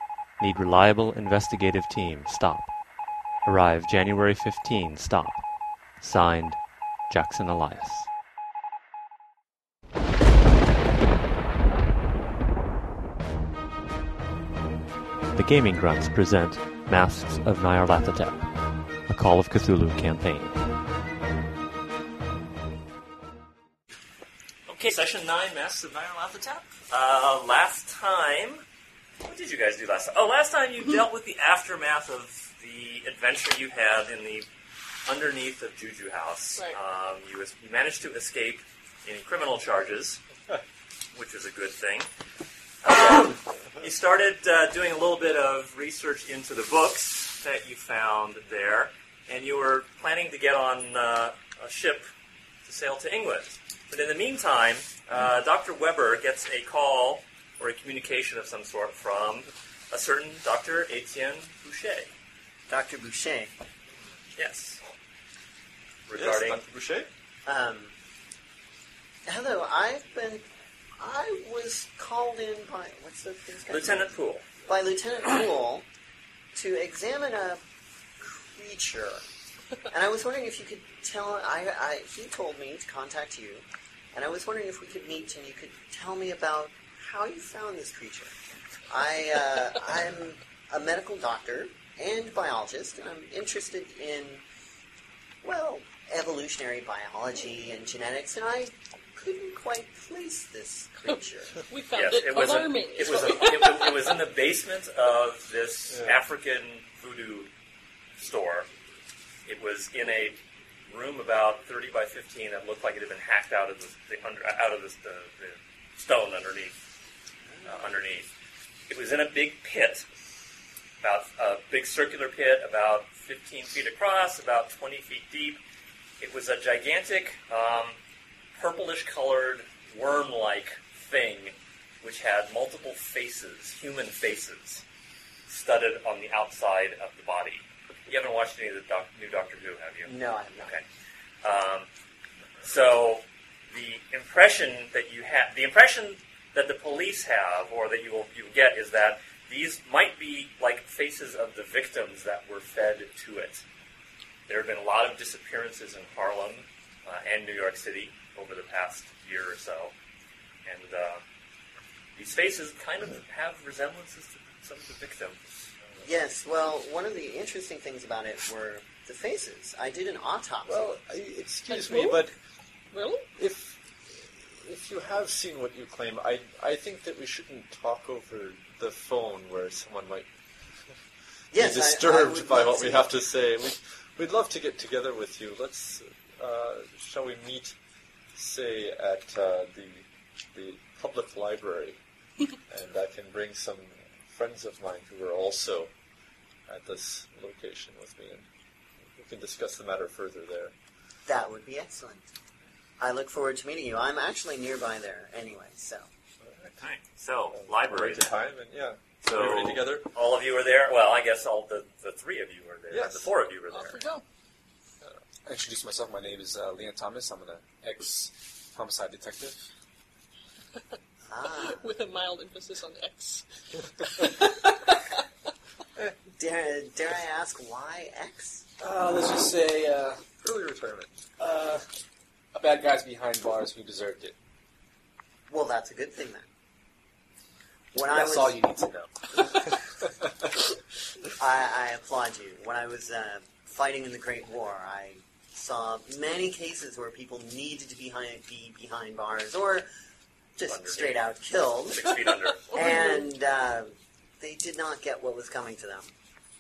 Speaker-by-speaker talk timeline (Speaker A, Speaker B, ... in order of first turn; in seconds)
Speaker A: 0.3-2.8, 3.4-8.1, 15.3-18.5, 19.1-20.6
Speaker B: 24.7-28.6, 29.2-34.5, 35.1-40.2, 41.1-42.1, 42.8-52.1, 52.6-62.1, 64.4-64.8, 66.1-66.6, 73.7-74.5, 101.9-107.5, 108.2-108.7, 109.5-116.7, 117.7-118.3, 118.9-120.1, 121.0-125.6, 126.2-128.0, 128.6-134.8, 135.5-140.8, 141.4-141.9, 142.6-153.6, 154.5-159.9, 160.7-161.2, 162.2-165.5, 206.8-208.3, 209.2-214.0, 250.7-251.3, 251.9-252.9
Speaker C: 62.7-63.5, 67.5-68.0, 69.3-70.4, 71.0-74.1, 74.7-75.9, 76.5-77.6, 78.2-79.2, 79.9-88.3, 88.9-94.4, 95.4-101.5, 117.5-117.9, 140.1-140.8, 166.0-170.9, 181.5-183.1, 201.3-202.2, 203.0-206.1, 221.3-221.8, 226.3-228.7, 235.5-236.5, 237.9-238.6, 241.4-249.9, 250.6-252.1, 252.7-256.1
Speaker D: 66.1-67.1, 105.9-106.2, 170.7-172.3, 173.4-180.3, 181.5-187.8, 188.3-192.0, 192.7-195.9, 196.7-198.5, 199.2-200.7, 206.4-206.7, 207.5-210.1, 212.9-213.3, 230.4-231.2
Speaker E: 101.7-104.2, 171.7-172.2, 172.9-173.2, 213.7-214.2, 221.6-223.4, 224.0-225.2, 252.7-253.2
Speaker F: 215.5-219.6, 228.8-230.2, 231.4-231.8, 232.5-234.3, 238.1-239.8